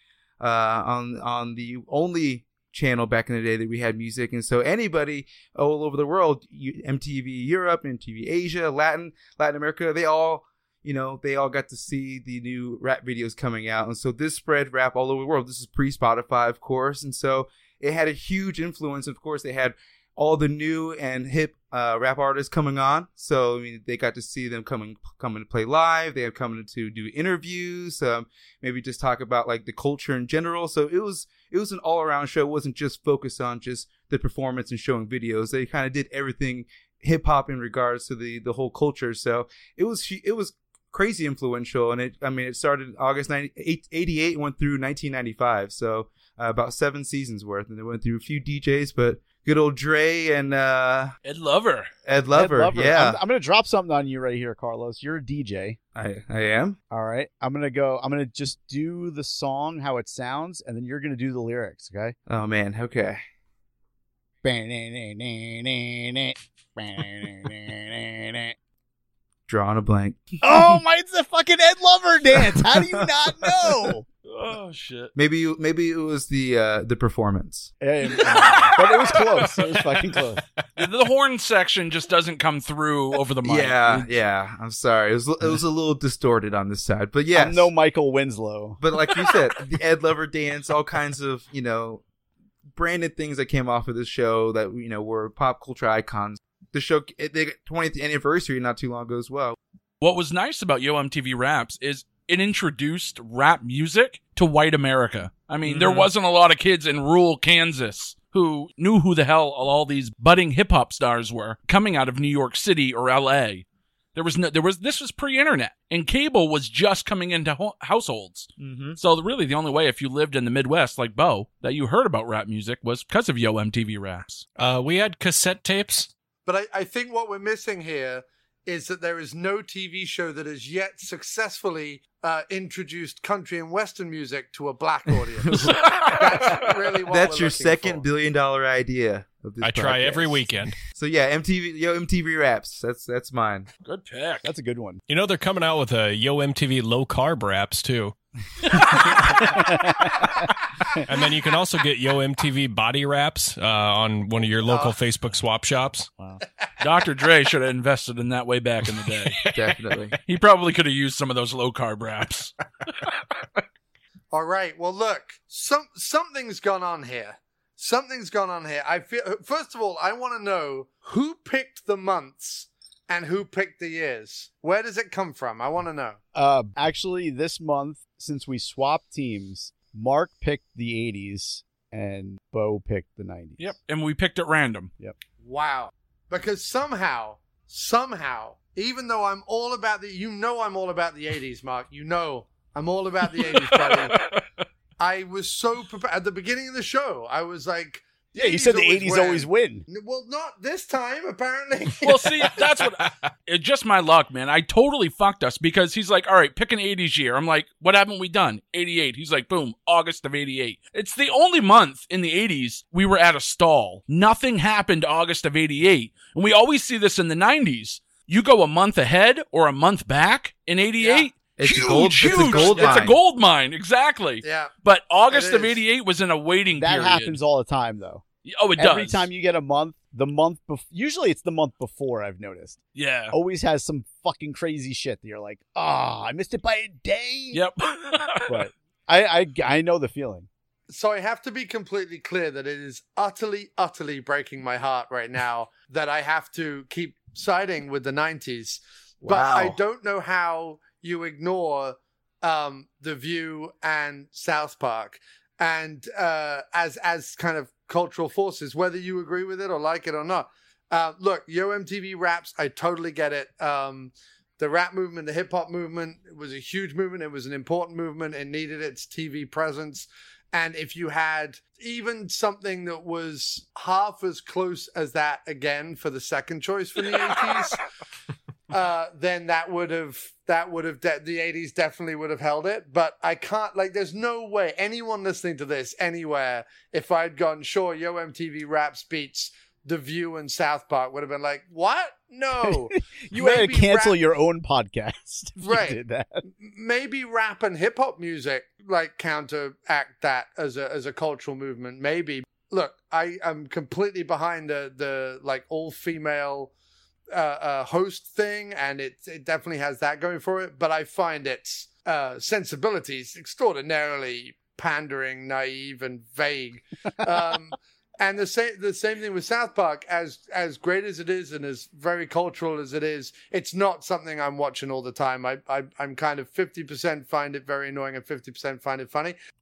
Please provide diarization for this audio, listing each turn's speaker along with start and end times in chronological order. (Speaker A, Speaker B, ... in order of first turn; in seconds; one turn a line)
Speaker A: 0.4-51.1
Speaker B: 51.2-51.9
Speaker A: 52.1-53.2
Speaker C: 52.3-55.8
Speaker A: 56.0-56.8
Speaker C: 56.9-62.2
Speaker A: 62.3-63.2
Speaker C: 64.4-68.5
Speaker A: 69.5-70.8
Speaker C: 70.4-74.1
Speaker A: 72.4-73.5
Speaker B: 74.3-75.1
Speaker A: 75.2-77.7
Speaker C: 77.8-80.4
Speaker B: 78.2-79.2
Speaker B: 80.8-84.1
Speaker A: 83.4-87.7
Speaker C: 87.3-88.8
Speaker A: 88.8-92.0
Speaker A: 92.7-99.6
Speaker B: 100.0-124.5
Speaker A: 105.7-106.1
Speaker A: 118.6-119.0
Speaker D: 124.6-126.1
Speaker E: 126.5-138.0
Speaker B: 135.5-136.7
Speaker A: 137.1-143.7
Speaker D: 139.6-140.8
Speaker B: 143.8-144.5
Speaker C: 144.4-145.0
Speaker D: 145.1-148.2
Speaker C: 149.5-150.2
Speaker D: 151.0-156.4
Speaker E: 154.7-155.0
Speaker B: 156.8-159.4
Speaker A: 159.5-160.2
Speaker B: 160.3-162.6
Speaker E: 164.3-176.2
Speaker C: 176.3-183.7
Speaker B: 183.6-184.9
Speaker E: 185.4-194.2
Speaker B: 193.5-194.4
Speaker E: 195.0-202.6
Speaker C: 198.4-199.9
Speaker B: 202.0-227.4
Speaker E: 221.0-221.3
Speaker A: 221.6-223.2
Speaker E: 222.4-223.0
Speaker E: 224.4-224.7
Speaker E: 225.3-225.8
Speaker C: 226.7-228.2
Speaker B: 228.4-229.3
Speaker C: 228.8-237.6
Speaker B: 232.9-233.3
Speaker B: 237.5-238.6
Speaker C: 238.5-240.5
Speaker E: 240.9-277.8
Speaker A: 249.2-249.8
Speaker E: 278.7-294.2
Speaker C: 292.6-296.4
Speaker E: 295.6-296.0
Speaker E: 296.6-306.7
Speaker E: 307.3-329.4